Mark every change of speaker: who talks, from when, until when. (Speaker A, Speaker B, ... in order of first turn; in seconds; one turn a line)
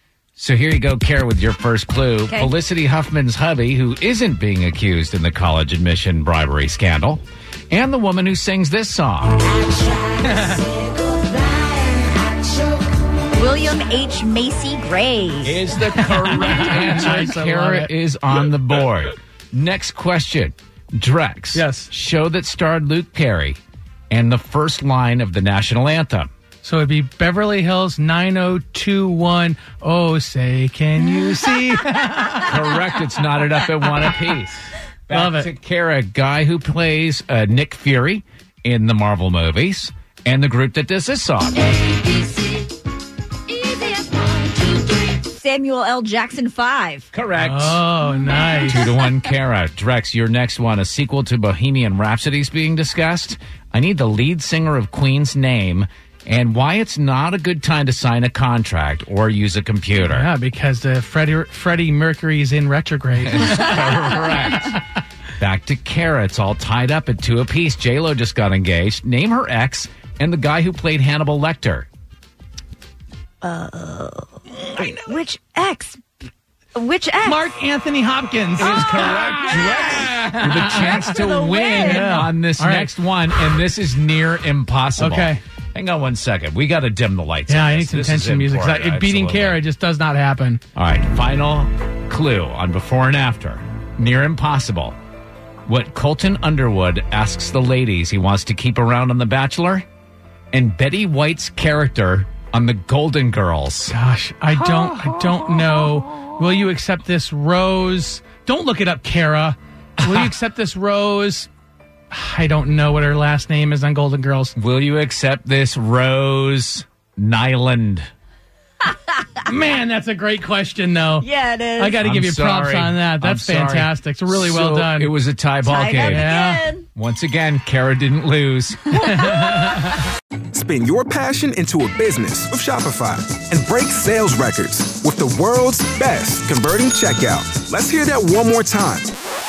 Speaker A: 0.4-9.6
Speaker B: 9.8-12.7
Speaker B: 13.3-15.6
Speaker A: 15.4-23.6
Speaker C: 15.8-17.9
Speaker C: 21.5-21.9
Speaker A: 24.1-26.3
Speaker C: 26.6-32.5
Speaker A: 32.1-41.7
Speaker C: 35.1-35.5
Speaker B: 41.7-42.7
Speaker B: 43.5-47.1
Speaker A: 47.1-47.8
Speaker C: 47.4-49.0
Speaker A: 48.6-60.3
Speaker C: 60.0-64.2
Speaker A: 63.2-64.8
Speaker A: 65.4-71.9
Speaker B: 73.4-76.0
Speaker B: 76.8-77.5
Speaker C: 77.2-81.2
Speaker A: 78.6-89.6
Speaker B: 79.5-80.1
Speaker B: 80.8-82.1
Speaker C: 81.8-82.9
Speaker C: 85.0-85.4
Speaker C: 87.5-90.6
Speaker A: 90.8-95.0
Speaker A: 95.7-99.8
Speaker A: 100.5-104.0
Speaker C: 103.9-111.5
Speaker A: 110.0-110.3
Speaker C: 112.1-114.5
Speaker A: 114.6-118.1
Speaker B: 118.9-119.4
Speaker C: 119.5-125.1
Speaker B: 121.2-122.0
Speaker A: 122.0-126.3
Speaker B: 125.6-126.9
Speaker C: 126.0-126.7
Speaker A: 126.9-129.6
Speaker B: 129.0-129.7
Speaker D: 130.5-139.1